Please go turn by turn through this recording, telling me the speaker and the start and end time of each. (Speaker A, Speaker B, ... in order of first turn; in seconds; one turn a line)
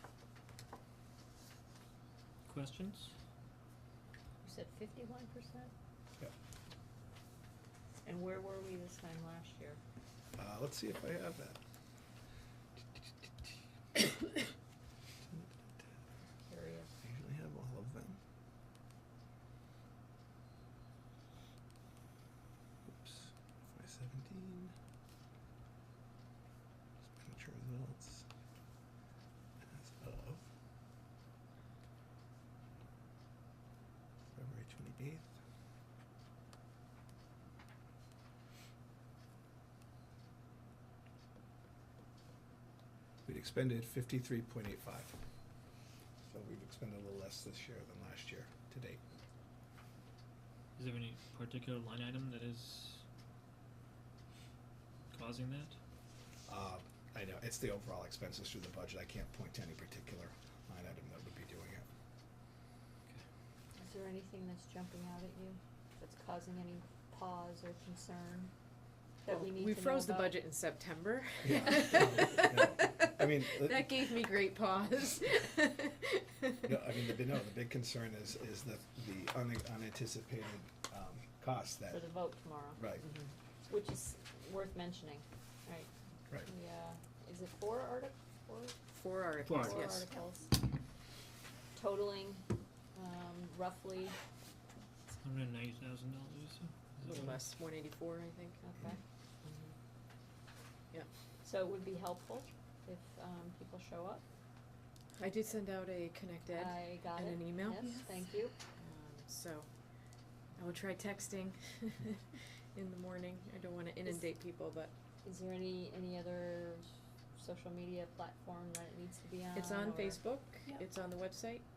Speaker A: 2.5-3.1
Speaker B: 4.4-5.7
Speaker B: 8.0-9.8
Speaker C: 10.3-11.6
Speaker B: 16.4-16.9
Speaker C: 17.0-18.2
Speaker C: 23.0-24.7
Speaker C: 27.1-28.2
Speaker C: 29.7-30.5
Speaker C: 34.3-35.3
Speaker C: 43.2-45.2
Speaker C: 46.3-49.0
Speaker A: 50.8-53.0
Speaker A: 55.1-55.8
Speaker C: 56.5-61.9
Speaker B: 63.8-68.5
Speaker B: 69.2-70.4
Speaker D: 69.3-77.2
Speaker C: 71.4-73.9
Speaker C: 76.6-82.0
Speaker B: 81.9-85.9
Speaker C: 82.8-83.0
Speaker B: 86.5-88.8
Speaker D: 88.9-90.0
Speaker A: 89.4-89.9
Speaker B: 89.5-90.6
Speaker B: 91.7-94.2
Speaker A: 95.2-97.4
Speaker D: 97.0-98.6
Speaker B: 98.6-99.0
Speaker B: 101.4-104.2
Speaker D: 105.2-108.1
Speaker B: 106.5-108.5
Speaker D: 108.7-109.7
Speaker D: 110.5-114.9
Speaker B: 115.2-120.2
Speaker D: 119.5-121.6